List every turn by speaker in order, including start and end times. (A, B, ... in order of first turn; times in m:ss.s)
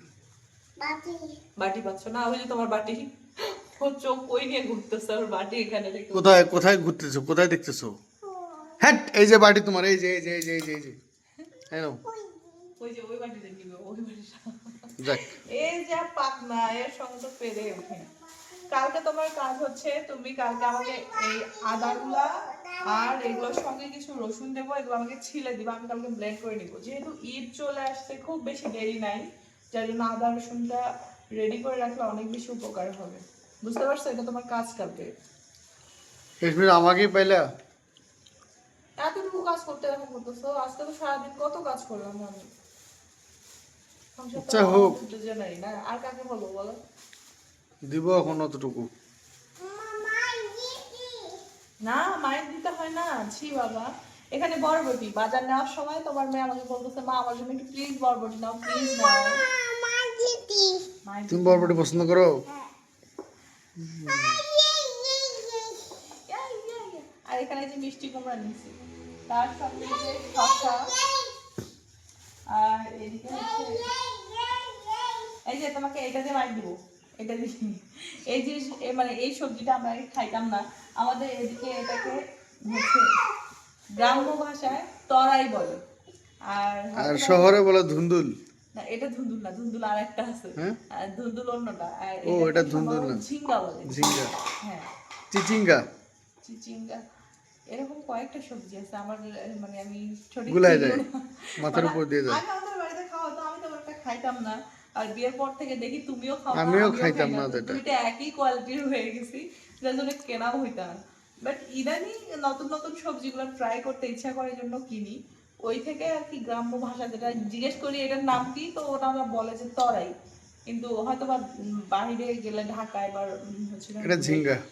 0:00.8-0:01.4 A
0:01.6-0:06.3 B
0:06.1-0:08.0 C
0:08.4-0:08.8 A
0:08.8-0:11.0 C
0:11.7-0:12.0 C
0:12.1-0:12.7 A
0:12.8-0:18.1 B
0:18.6-0:30.8 B
0:31.4-0:35.1 B
0:36.4-0:37.5 C
0:39.0-0:42.5 B
0:44.2-0:46.8 B
0:44.4-0:45.0 C
0:47.9-0:48.9 C
0:49.6-0:51.4 A
0:51.8-0:59.4 B
0:59.5-1:00.9 A
1:01.0-1:02.1 B
1:01.3-1:02.4 C
1:03.8-1:04.4 C
1:04.4-1:05.8 A
1:06.3-1:08.8 B
1:09.3-1:10.9 B
1:10.7-1:11.3 A
1:12.5-1:13.9 B
1:13.6-1:15.3 A
1:15.5-1:23.1 B
1:24.0-1:25.8 B
1:26.5-1:27.5 B
1:27.0-1:28.3 C
1:28.7-1:34.9 B
1:32.3-1:33.2 C
1:33.9-1:34.3 C
1:35.3-1:35.8 C
1:36.4-1:37.0 B
1:37.7-2:00.1 B
1:40.5-1:41.0 C
1:41.6-1:42.4 C
1:46.6-1:47.8 C
2:00.7-2:04.4 B
2:04.0-2:04.6 C